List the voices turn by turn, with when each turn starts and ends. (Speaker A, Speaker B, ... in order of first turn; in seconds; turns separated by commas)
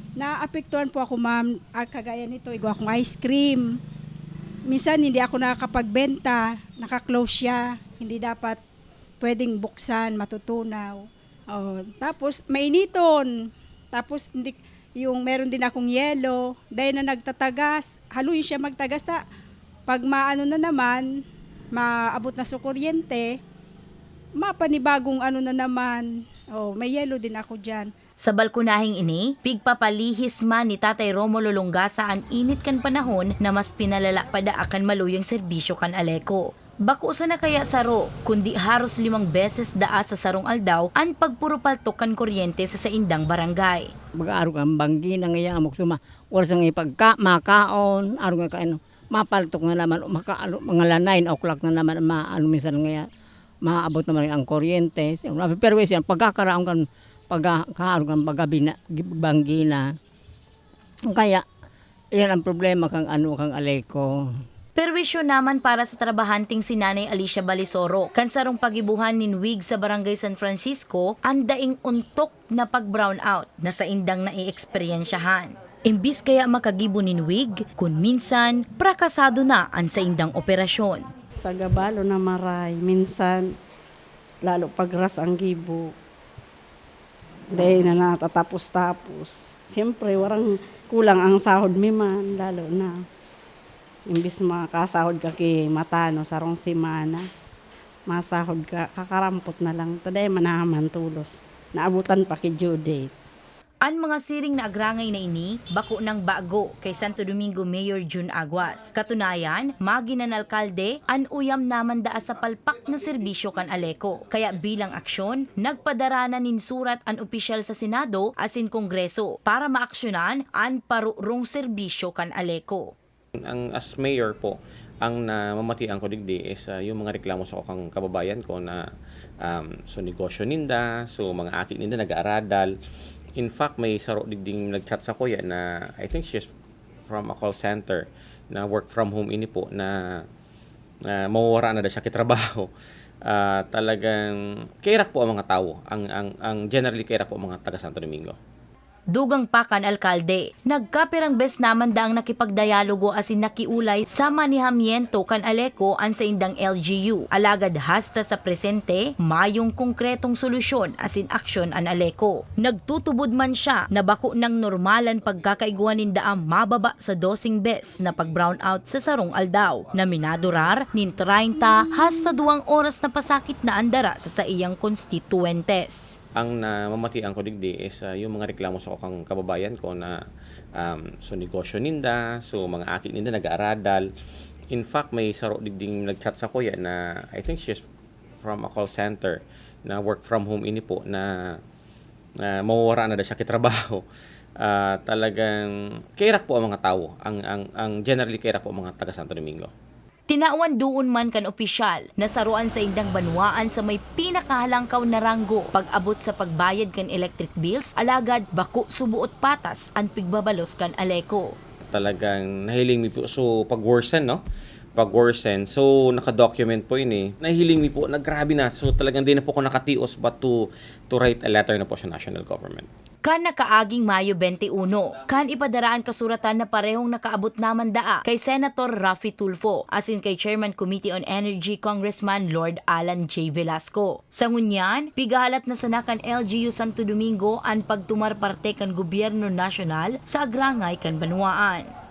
Speaker A: 0.2-3.7, Speaker A: 4.7-8.6, Speaker A: 9.2-13.3, Speaker A: 13.9-19.2, Speaker A: 19.9-21.1, Speaker A: 21.7-23.4, Speaker A: 24.4-27.9, Speaker B: 28.2-43.9, Speaker C: 44.2-53.0, Speaker C: 53.6-59.9, Speaker C: 61.1-61.4, Speaker C: 62.1-64.1, Speaker B: 64.8-81.1, Speaker D: 81.4-83.5, Speaker D: 84.4-85.9, Speaker D: 87.5-93.0, Speaker D: 94.1-97.3, Speaker D: 98.1-103.1, Speaker B: 103.8-122.9, Speaker E: 123.5-128.8, Speaker E: 129.4-132.7, Speaker E: 133.4-136.5, Speaker E: 137.1-140.2, Speaker E: 141.1-142.7, Speaker E: 143.2-148.4, Speaker B: 149.1-176.1, Speaker E: 176.4-180.2, Speaker E: 180.8-184.1, Speaker E: 184.7-187.8, Speaker E: 188.4-191.6, Speaker E: 192.4-194.0, Speaker E: 194.6-199.7, Speaker B: 200.3-211.5, Speaker E: 211.9-214.4, Speaker E: 215.0-220.6, Speaker E: 221.1-222.9, Speaker B: 223.2-241.9